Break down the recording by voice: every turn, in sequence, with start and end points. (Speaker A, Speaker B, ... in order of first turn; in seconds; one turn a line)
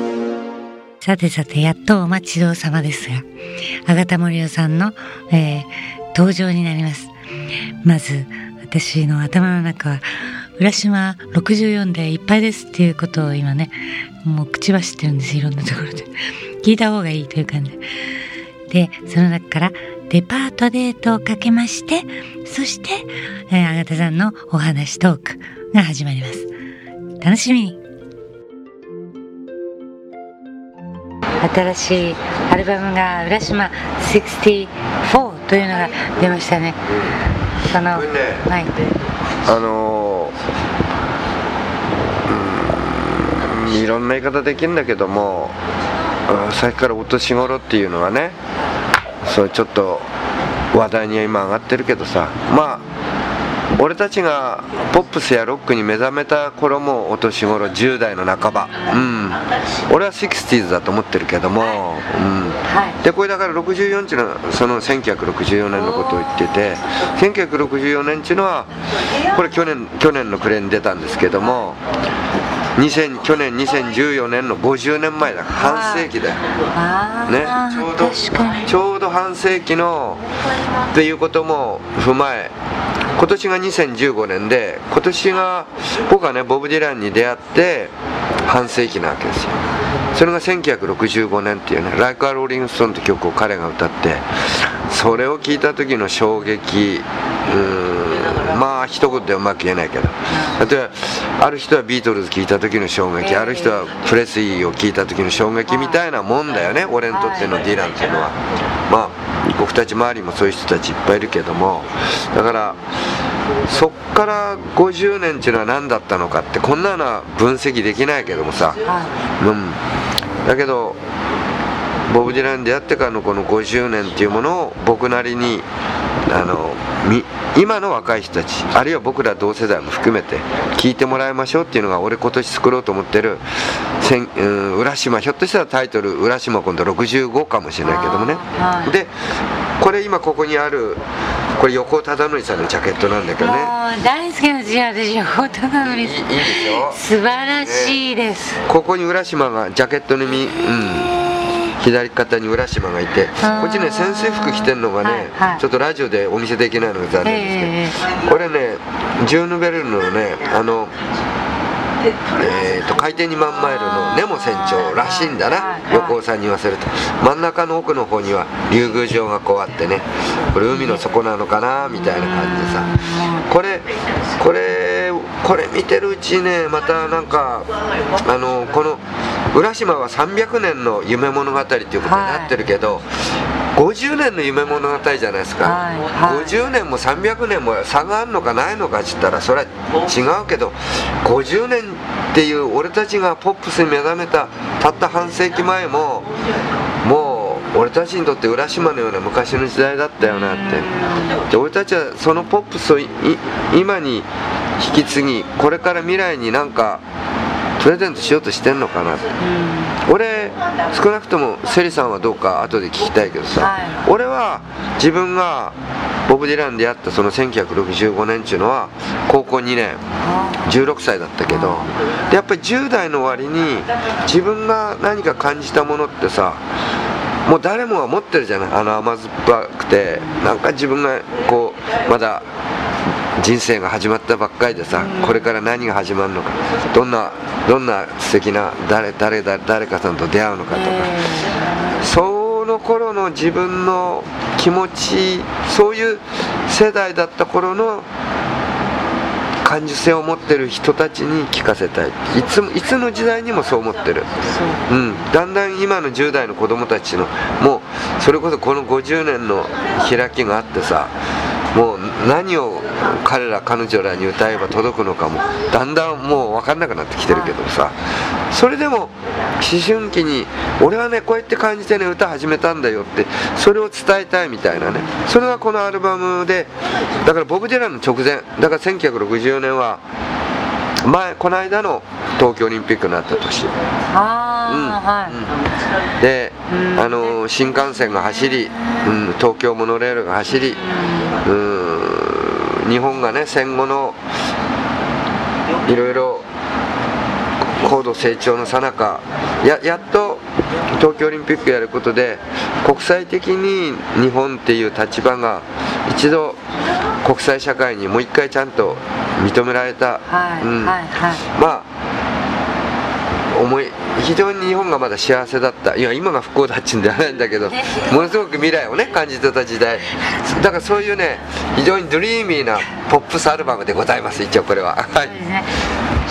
Speaker A: 1.0-3.2
Speaker A: 3.9-7.1
Speaker A: 7.8-10.0
Speaker A: 10.6-13.7
Speaker A: 14.2-17.8
Speaker A: 18.7-26.5
Speaker A: 27.2-27.8
Speaker A: 31.4-36.8
Speaker A: 37.7-38.7
Speaker B: 37.9-38.5
Speaker B: 39.5-40.3
Speaker B: 42.3-45.5
Speaker B: 46.3-48.4
Speaker B: 49.2-50.1
Speaker B: 50.7-52.9
Speaker B: 53.8-68.7
Speaker A: 62.7-63.0
Speaker B: 69.3-71.8
Speaker B: 72.8-76.4
Speaker A: 75.5-76.1
Speaker A: 76.7-78.7
Speaker B: 77.2-80.2
Speaker B: 80.9-82.5
Speaker B: 83.2-87.9
Speaker B: 88.5-89.6
Speaker B: 90.1-108.4
Speaker A: 100.3-100.6
Speaker A: 103.2-103.8
Speaker A: 105.7-106.0
Speaker A: 107.1-107.6
Speaker B: 108.9-112.8
Speaker B: 113.7-118.8
Speaker A: 118.8-119.1
Speaker B: 119.4-119.8
Speaker B: 120.4-121.0
Speaker B: 122.1-125.7
Speaker B: 126.3-133.4
Speaker B: 134.0-139.1
Speaker A: 137.8-138.9
Speaker B: 139.8-141.0
Speaker B: 141.6-143.7
Speaker A: 143.4-148.6
Speaker B: 145.8-147.0
Speaker B: 147.6-148.0
Speaker B: 148.7-151.1
Speaker A: 150.5-151.7
Speaker B: 151.8-160.9
Speaker A: 153.4-155.6
Speaker A: 157.2-158.1
Speaker B: 162.3-173.9
Speaker A: 164.0-166.2
Speaker A: 170.7-171.0
Speaker A: 172.0-173.5
Speaker B: 174.4-183.1
Speaker A: 182.0-182.5
Speaker B: 183.7-196.3
Speaker A: 185.6-186.6
Speaker B: 197.0-200.9
Speaker A: 200.2-201.4
Speaker B: 201.4-204.3
Speaker B: 204.8-207.0
Speaker B: 207.8-209.2
Speaker A: 209.4-210.0
Speaker B: 210.0-215.8
Speaker A: 213.6-214.1
Speaker B: 216.3-220.0
Speaker A: 220.2-220.8
Speaker B: 220.6-226.6
Speaker A: 221.5-221.9
Speaker B: 227.4-232.5
Speaker B: 233.4-241.2
Speaker A: 234.9-235.5
Speaker A: 240.7-241.9
Speaker B: 242.0-248.1
Speaker B: 249.6-254.3
Speaker A: 254.4-254.8
Speaker B: 254.9-261.1
Speaker B: 261.7-267.9
Speaker A: 267.3-267.6
Speaker B: 268.5-276.7
Speaker A: 274.8-275.2
Speaker B: 277.2-280.0
Speaker B: 281.0-283.7
Speaker A: 284.1-285.4
Speaker B: 284.7-285.6
Speaker B: 286.2-290.8
Speaker A: 286.7-287.4
Speaker A: 290.5-291.4
Speaker B: 291.4-294.2
Speaker B: 295.8-296.4
Speaker B: 297.8-306.6
Speaker B: 307.2-311.0
Speaker A: 310.3-311.4
Speaker B: 311.5-311.9
Speaker B: 313.5-325.4
Speaker A: 317.7-318.1
Speaker A: 325.2-325.7